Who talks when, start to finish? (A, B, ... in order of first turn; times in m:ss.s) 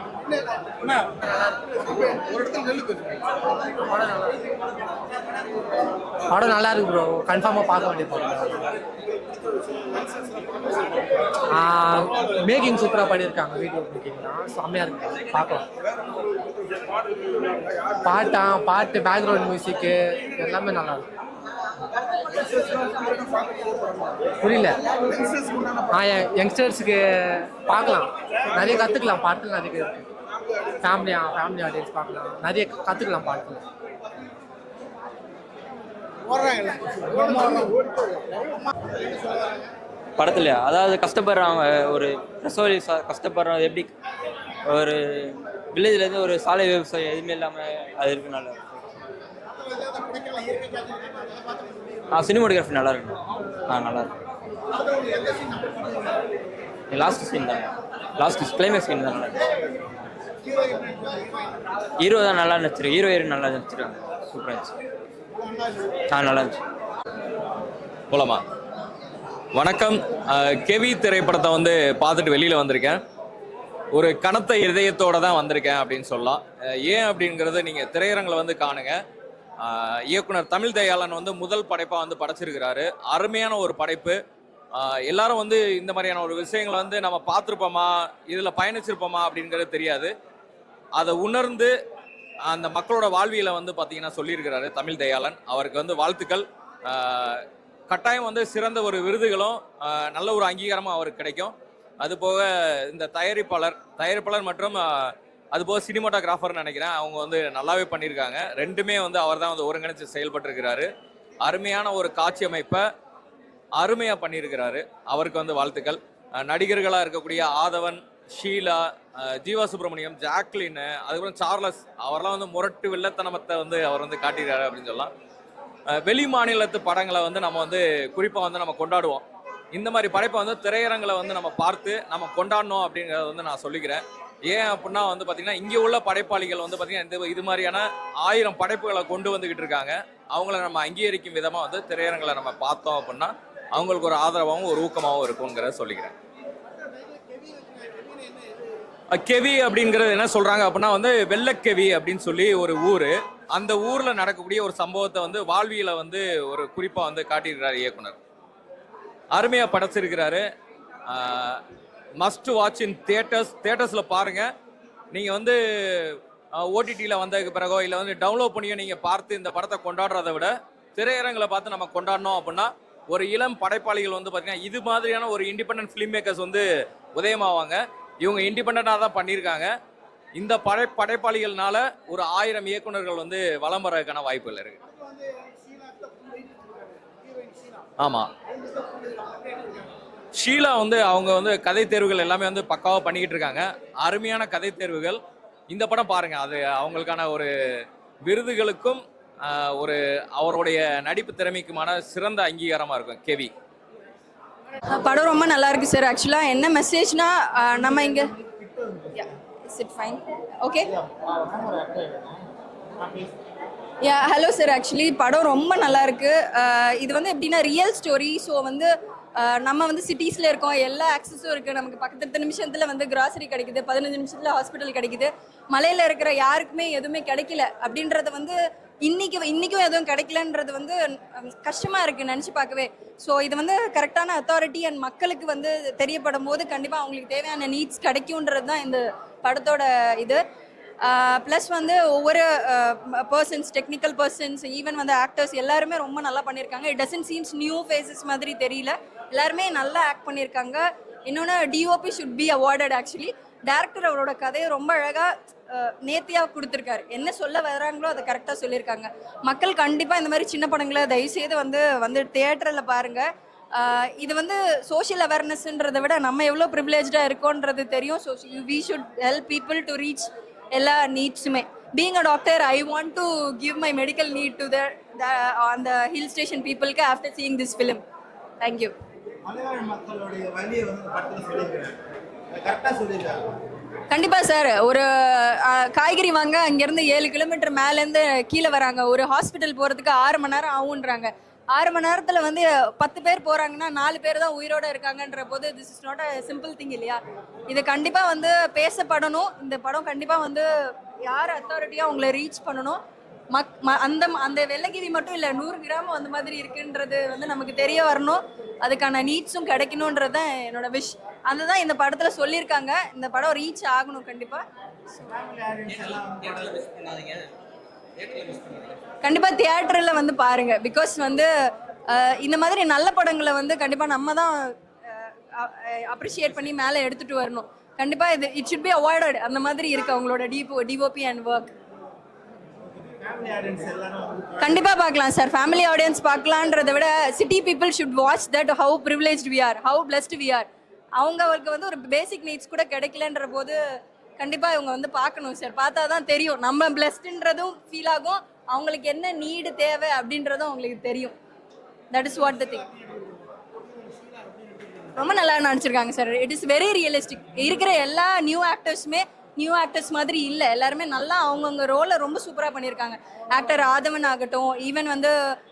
0:03.8-0:04.4 A
0:06.3-0:08.6 A
0:11.4-0:15.7 A
0:18.0-0:21.0 A
0:24.4-0:24.8 A
0:25.9-0:30.0 A
0:30.8-0:33.6 A
0:36.3-0:37.8 B
0:40.2-0:43.9 C
0:44.7-0:48.8 C
0:49.7-0:52.0 B
0:52.1-0:54.1 C
0:54.7-0:56.3 B
0:56.9-0:59.4 C
1:00.5-1:01.4 B
1:02.0-1:04.7 C
1:06.1-1:06.6 C
1:08.1-1:08.4 D
1:09.5-1:13.0 D
1:14.0-1:19.0 D
1:19.6-1:24.2 D
1:24.8-1:30.1 D
1:31.0-1:31.7 D
1:32.5-1:50.9 D
1:51.4-1:52.8 D
1:53.8-2:05.1 D
2:05.9-2:26.1 D
2:26.8-2:28.8 B
2:29.1-2:38.2 D
2:39.3-2:40.4 D
2:41.1-2:41.6 D
2:42.2-2:44.5 D
2:45.1-2:56.6 D
2:57.2-2:59.7 D
3:00.4-3:04.8 D
3:04.8-3:07.9 B
3:08.0-3:08.3 D
3:08.5-3:09.9 B
3:10.4-3:23.5 D
3:24.9-3:28.3 E
3:27.7-3:29.3 B
3:29.2-3:30.9 E
3:30.9-3:33.3 B
3:34.0-4:00.4 E
4:01.0-4:38.0 E
4:38.6-4:38.9 E
4:39.4-4:41.9 B
4:42.5-4:43.4 B
4:44.1-5:00.7 E
5:01.2-5:03.0 E
5:03.5-5:14.6 E
5:15.4-5:16.9 B
5:19.2-5:21.5 E
5:22.1-5:31.8 E
5:33.0-5:34.9 B
5:34.6-5:43.8 E
5:44.4-5:51.4 E
5:52.1-5:52.9 E
5:52.9-5:55.2 B
5:55.2-6:05.3 E